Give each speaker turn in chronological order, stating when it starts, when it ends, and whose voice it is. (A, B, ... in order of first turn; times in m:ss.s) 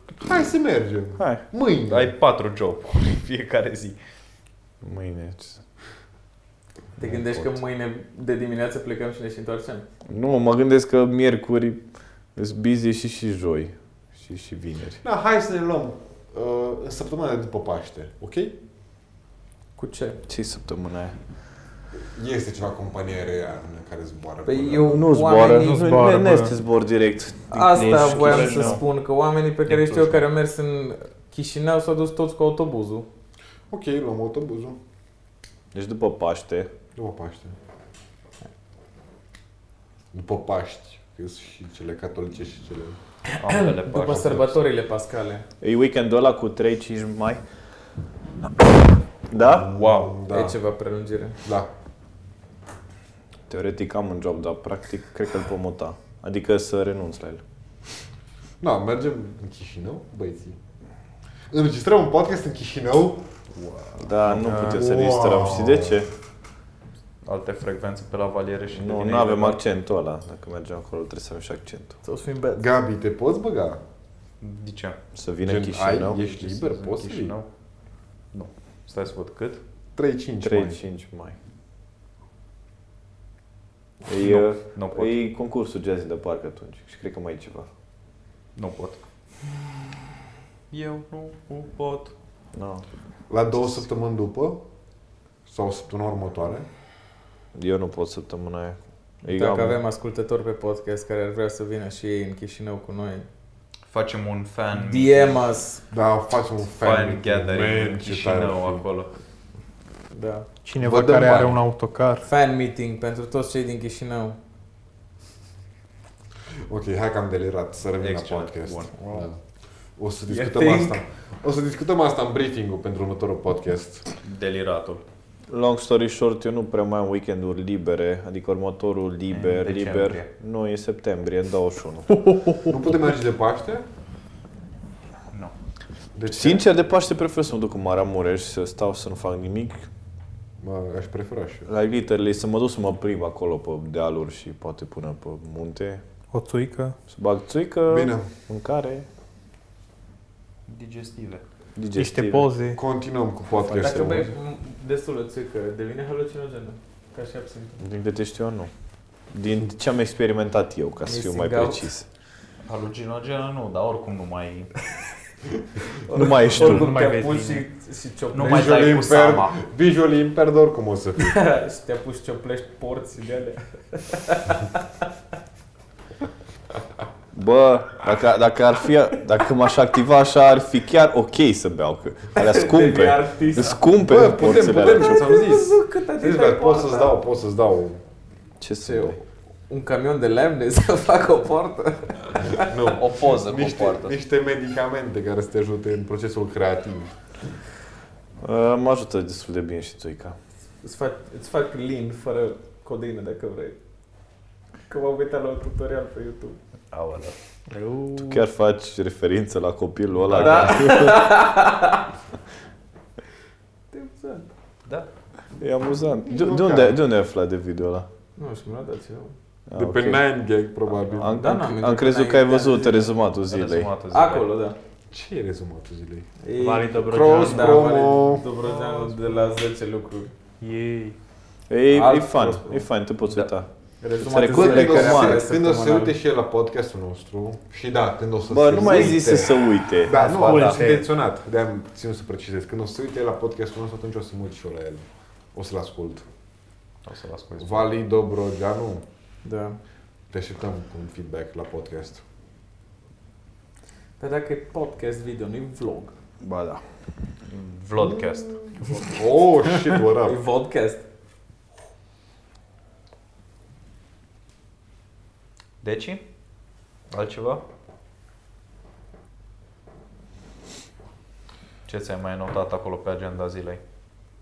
0:00.2-0:02.1 A
0:01.2-0:01.4 B
0:01.9-0:04.0 C
0:04.8-0:05.6 B
0:07.0-0:09.9 D
0:07.0-0:07.6 B
0:10.1-0:11.8 B
0:12.3-0:15.0 B
0:15.0-0:18.6 A
0:19.8-0:20.2 D
0:20.3-0:21.2 B
0:22.1-0:25.1 A
0:24.4-0:26.1 D
0:24.9-0:28.8 B
0:25.4-0:26.5 E
0:27.5-0:33.1 D
0:27.7-0:28.8 C
0:28.1-0:28.8 E
0:33.7-0:34.8 A
0:35.7-0:36.7 B
0:36.9-0:37.6 A
0:40.1-0:43.0 A
0:43.3-0:45.4 D
0:43.4-0:44.6 C
0:45.6-0:47.4 B
0:49.3-0:49.7 B
0:49.4-0:50.6 A
0:49.7-0:50.1 C
0:50.3-0:51.4 D
0:51.4-0:51.7 A
0:53.5-0:57.4 B
0:58.6-1:00.6 A
1:01.5-1:03.2 A
1:03.5-1:04.5 C
1:04.0-1:06.1 B
1:04.2-1:06.0 A
1:07.2-1:09.6 C
1:08.7-1:12.0 B
1:12.0-1:12.7 D
1:12.6-1:13.8 A
1:14.4-1:15.0 C
1:15.1-1:16.2 B
1:15.4-1:17.4 A
1:16.2-1:17.5 C
1:18.3-1:19.6 C
1:20.0-1:20.8 A
1:20.4-1:21.4 B
1:24.0-1:27.7 B
1:24.1-1:25.2 C
1:28.6-1:29.0 C
1:30.7-1:32.1 C
1:32.5-1:32.8 B
1:33.3-1:34.6 A
1:35.4-1:36.7 A
1:37.5-1:39.8 B
1:39.2-1:43.3 D
1:43.9-1:45.4 C
1:44.7-1:45.8 D
1:45.9-1:48.8 A
1:46.8-1:49.1 C
1:50.1-1:50.5 D
1:50.6-1:52.3 E
1:50.8-1:51.6 A
1:52.2-1:54.4 D
1:56.7-1:59.4 A
1:58.0-1:59.2 C
2:00.0-2:04.0 A
2:00.4-2:00.9 C
2:04.2-2:05.0 C
2:05.5-2:12.2 B
2:09.3-2:10.3 C
2:12.1-2:12.8 E
2:12.6-2:13.8 A
2:16.1-2:16.6 A
2:16.3-2:19.9 B
2:20.6-2:21.7 A
2:21.7-2:26.0 B
2:26.3-2:27.0 E
2:27.1-2:29.1 B
2:27.9-2:28.3 A
2:30.7-2:31.4 C
2:31.8-2:32.5 B
2:31.9-2:32.8 E
2:32.7-2:34.3 A
2:33.7-2:37.8 D
2:37.8-2:38.7 B
2:39.3-2:42.0 B
2:41.0-2:41.9 D
2:42.6-2:44.7 C
2:46.1-2:46.9 B
2:46.1-2:48.9 D
2:46.6-2:47.7 E
2:48.3-2:49.6 C
2:48.4-2:51.4 A
2:51.2-2:54.8 D
2:57.3-3:05.3 B
3:02.3-3:03.8 D
3:04.0-3:08.0 A
3:04.4-3:07.2 D
3:08.6-3:09.2 B
3:08.8-3:12.7 D
3:12.6-3:17.1 A
3:12.9-3:14.1 C
3:18.4-3:20.4 B
3:20.8-3:23.8 D
3:24.9-3:26.6 D
3:26.9-3:27.4 C
3:27.7-3:28.4 E
3:28.2-3:31.3 B
3:30.2-3:31.0 C
3:30.3-3:32.1 D
3:33.9-3:34.5 D
3:35.6-3:38.1 B
3:36.2-3:37.0 A
3:38.4-3:39.3 D
3:39.7-3:40.2 B
3:39.7-3:41.5 A
3:41.1-3:43.9 B
3:41.3-3:43.1 D
3:43.5-3:44.5 C
3:44.1-3:44.8 D
3:45.1-3:46.3 A
3:46.4-3:50.3 D
3:46.6-3:48.0 E
3:47.1-3:48.4 A
3:50.6-3:51.2 E
3:51.7-3:53.7 B
3:51.9-3:52.8 D
3:54.0-3:56.1 D
3:54.2-3:55.4 B
3:54.4-4:06.3 A
3:58.5-4:00.2 B
4:00.1-4:01.1 E
4:00.4-4:00.8 C
4:07.0-4:07.9 C
4:07.6-4:09.0 A
4:09.4-4:09.8 D
4:10.3-4:12.2 A
4:14.2-4:16.1 D
4:16.4-4:16.8 B
4:17.4-4:18.5 C
4:18.0-4:20.4 A
4:18.9-4:21.0 D
4:25.8-4:26.2 C
4:27.1-4:27.6 C
4:31.8-4:33.8 C